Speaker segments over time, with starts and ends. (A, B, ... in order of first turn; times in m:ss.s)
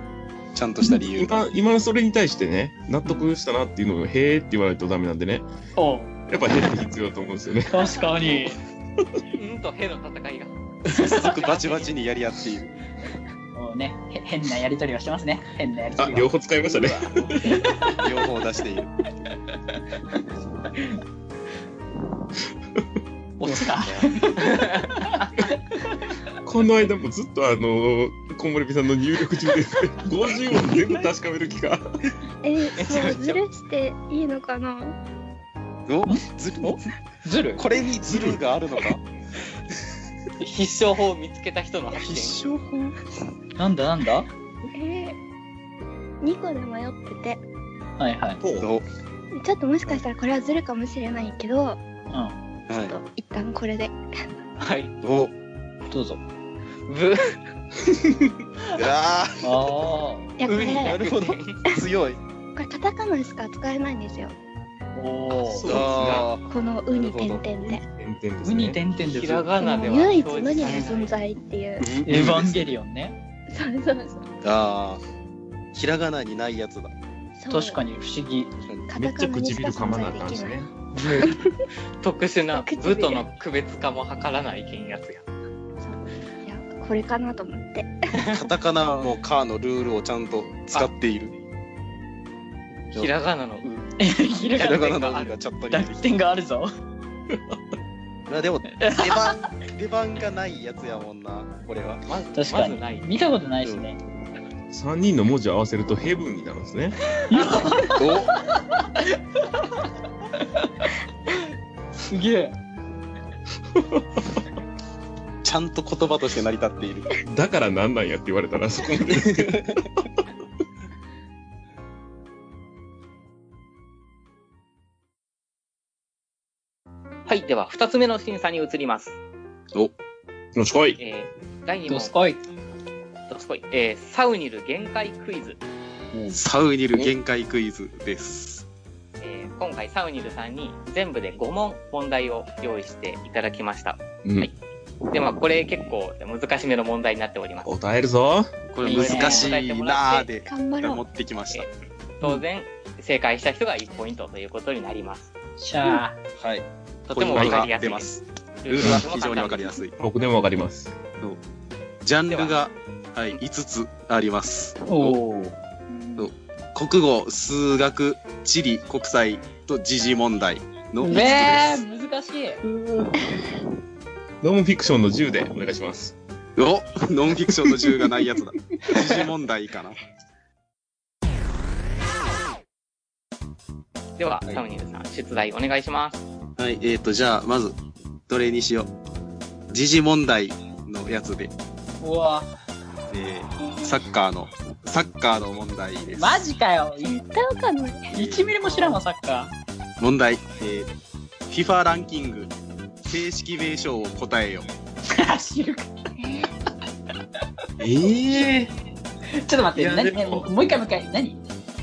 0:00.5-0:01.4 A
0:01.0-0:05.5 B
0:05.8-0:06.2 C
0:06.3-0:07.9 B
0:07.7-0:08.6 C
0:09.3-0:10.5 D
0:10.9-0:12.7 A
0:11.0-0:11.9 D
0:13.5-0:18.1 C
0:16.0-0:17.3 B
0:17.8-0:18.9 A
0:23.4-0:25.2 C
0:23.7-0:25.1 D
0:26.4-0:31.8 B
0:32.4-0:35.0 E
0:32.8-0:33.4 D
0:35.9-0:36.8 A
0:36.1-0:37.7 C
0:37.6-0:39.0 A
0:40.4-0:42.4 D
0:42.0-0:43.0 A
0:43.6-0:44.3 C
0:44.7-0:45.2 E
0:46.2-0:47.4 E
0:48.0-0:48.4 C
0:48.4-0:48.7 B
0:48.6-0:48.8 A
0:49.3-0:51.8 E
0:52.1-0:52.4 C
0:52.7-0:53.0 A
0:52.8-0:53.9 E
0:54.6-0:54.9 D
0:55.0-0:55.3 A
0:55.9-0:56.2 C
0:56.9-0:57.4 D
0:58.7-0:59.5 A
0:59.4-1:00.4 C
1:00.4-1:01.0 E
1:00.4-1:01.6 D
1:00.5-1:02.2 A
1:02.6-1:04.4 E
1:05.0-1:05.7 C
1:05.5-1:06.4 B
1:05.7-1:07.4 A
1:06.4-1:07.8 E
1:07.7-1:08.8 B
1:08.4-1:09.5 C
1:09.0-1:11.1 D
1:09.6-1:11.9 E
1:11.8-1:12.6 B
1:12.0-1:13.2 C
1:13.5-1:14.3 E
1:14.4-1:15.0 A
1:15.7-1:16.9 A
1:17.4-1:17.8 E
1:17.5-1:18.5 C
1:18.9-1:21.6 E
1:19.0-1:20.7 B
1:20.9-1:21.4 C
1:22.0-1:25.2 D
1:22.5-1:23.2 E
1:25.8-1:28.0 E
1:28.2-1:28.4 D
1:28.3-1:31.3 A
1:32.9-1:33.7 D
1:34.0-1:34.9 C
1:34.5-1:35.4 D
1:34.6-1:36.0 A
1:35.7-1:36.7 C
1:38.3-1:42.0 A
1:38.8-1:39.3 C
1:42.1-1:43.1 D
1:42.4-1:44.0 C
1:44.7-1:47.0 B
1:47.3-1:49.0 C
1:48.0-1:48.4 A
1:50.4-1:50.9 C
1:52.1-1:52.6 C
1:53.7-1:54.4 B
1:55.4-1:57.1 A
1:57.2-2:00.0 B
1:59.1-1:59.8 A
2:07.3-2:09.2 D
2:10.6-2:11.0 B
2:11.0-2:12.2 D
2:11.9-2:12.4 C
2:13.3-2:15.6 D
2:16.1-2:16.4 C
2:16.3-2:18.7 A
2:19.2-2:24.5 D
2:24.2-2:24.5 B
2:25.1-2:27.7 D
2:27.6-2:28.5 B
2:28.7-2:31.7 A
2:28.8-2:30.3 D
2:28.8-2:29.5 C
2:30.5-2:31.0 E
2:32.2-2:35.3 D
2:35.6-2:36.2 C
2:36.4-2:40.0 A
2:37.1-2:38.1 D
2:37.3-2:37.7 B
2:38.6-2:39.8 D
2:38.8-2:39.0 B
2:40.0-2:40.9 B
2:42.0-2:45.2 A
2:42.3-2:42.6 D
2:44.9-2:45.6 C
2:45.9-2:46.3 E
2:46.2-2:51.8 A
2:51.0-2:52.6 C
2:54.4-2:56.2 B
2:56.6-3:00.0 A
3:04.2-3:06.2 D
3:06.6-3:07.8 A
3:08.3-3:08.9 A
3:09.7-3:11.5 A
3:12.0-3:12.5 C
3:13.1-3:16.4 A
3:13.6-3:14.0 E
3:16.1-3:17.2 C
3:17.0-3:18.1 E
3:18.1-3:19.5 C
3:18.1-3:18.8 A
3:20.0-3:20.9 A
3:21.5-3:22.5 A
3:23.0-3:24.7 A
3:25.1-3:25.9 C
3:26.2-3:26.5 E
3:27.8-3:28.7 B
3:29.3-3:31.4 C
3:29.7-3:30.5 B